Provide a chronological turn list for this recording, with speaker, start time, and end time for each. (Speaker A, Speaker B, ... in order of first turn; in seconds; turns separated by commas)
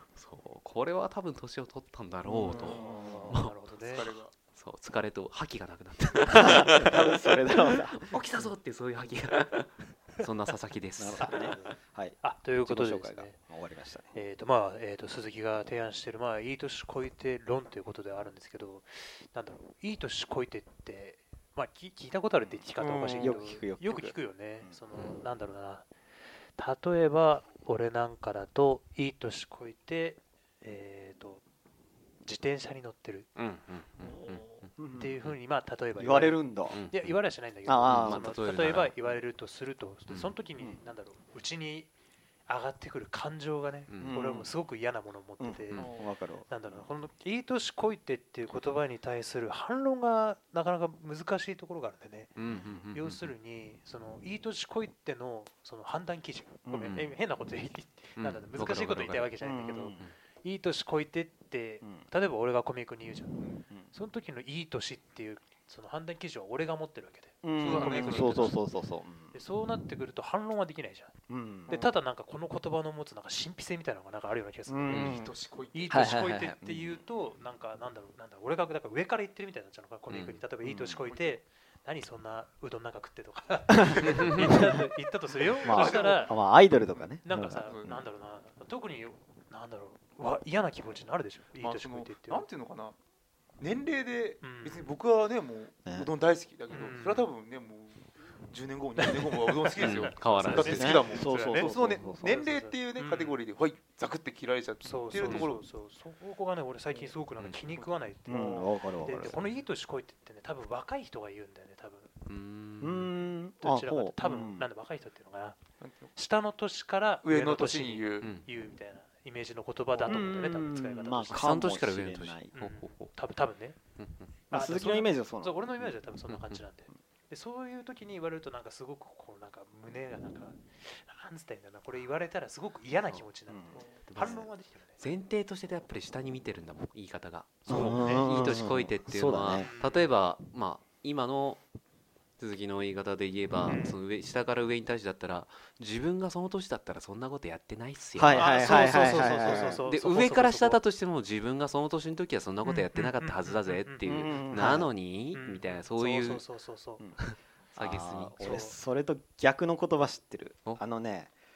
Speaker A: 0.1-3.5, Speaker B: 2.3-3.4, Speaker C: 2.5-4.1, Speaker D: 3.8-4.3, Speaker A: 4.5-11.5, Speaker B: 6.3-8.1, Speaker B: 11.0-14.1, Speaker C: 11.2-13.4, Speaker C: 14.1-25.9, Speaker D: 22.8-23.4, Speaker B: 23.0-24.8, Speaker C: 26.6-31.4, Speaker C: 32.2-33.3, Speaker A: 33.4-34.7, Speaker C: 34.1-41.9, Speaker B: 34.8-35.1, Speaker B: 36.0-36.8, Speaker A: 36.7-37.1, Speaker B: 37.7-38.3, Speaker A: 37.9-39.0, Speaker C: 42.5-45.9, Speaker A: 43.9-44.2, Speaker B: 44.0-44.5, Speaker B: 45.4-46.9, Speaker D: 45.8-46.1, Speaker C: 46.5-52.4, Speaker A: 52.4-53.3, Speaker C: 52.9-68.6, Speaker B: 56.7-57.0, Speaker A: 56.9-57.1, Speaker A: 58.2-59.3, Speaker B: 59.4-60.0, Speaker B: 67.4-69.3, Speaker D: 67.6-68.5, Speaker C: 69.3-71.1, Speaker B: 71.3-71.8, Speaker C: 71.7-75.2, Speaker B: 74.7-75.3, Speaker A: 74.9-75.2, Speaker D: 74.9-75.9, Speaker C: 75.7-86.4, Speaker B: 75.9-77.0, Speaker A: 80.1-80.4, Speaker B: 80.6-81.0, Speaker D: 81.1-81.4, Speaker B: 83.8-84.7, Speaker D: 85.6-86.4, Speaker B: 85.6-88.0, Speaker C: 87.2-92.5, Speaker D: 87.7-87.9, Speaker D: 91.6-93.0, Speaker D: 93.6-105.7, Speaker C: 94.4-95.0, Speaker C: 96.7-97.3, Speaker C: 99.0-103.4, Speaker A: 99.8-101.1, Speaker B: 100.7-102.4, Speaker C: 104.8-112.1, Speaker A: 105.2-105.5, Speaker B: 108.3-109.4, Speaker A: 112.3-113.1, Speaker B: 112.8-114.7, Speaker C: 113.6-115.6, Speaker D: 115.8-116.1, Speaker C: 116.1-121.4, Speaker D: 117.2-118.3, Speaker A: 118.2-118.5, Speaker D: 120.0-120.2, Speaker B: 120.1-122.5, Speaker A: 121.3-123.1, Speaker C: 122.5-123.8, Speaker A: 124.0-124.3, Speaker B: 124.5-125.8, Speaker C: 124.5-135.0, Speaker A: 126.3-126.6, Speaker B: 133.5-134.5, Speaker A: 134.1-134.4, Speaker A: 135.0-141.6, Speaker C: 137.7-138.3, Speaker B: 137.7-139.7, Speaker C: 139.6-140.1, Speaker A: 142.4-156.4, Speaker C: 143.7-144.0, Speaker B: 148.2-149.8, Speaker C: 148.3-150.8, Speaker C: 152.7-154.8, Speaker B: 154.1-154.9, Speaker C: 155.3-157.0, Speaker A: 157.2-158.6, Speaker B: 157.8-161.3, Speaker C: 158.4-158.8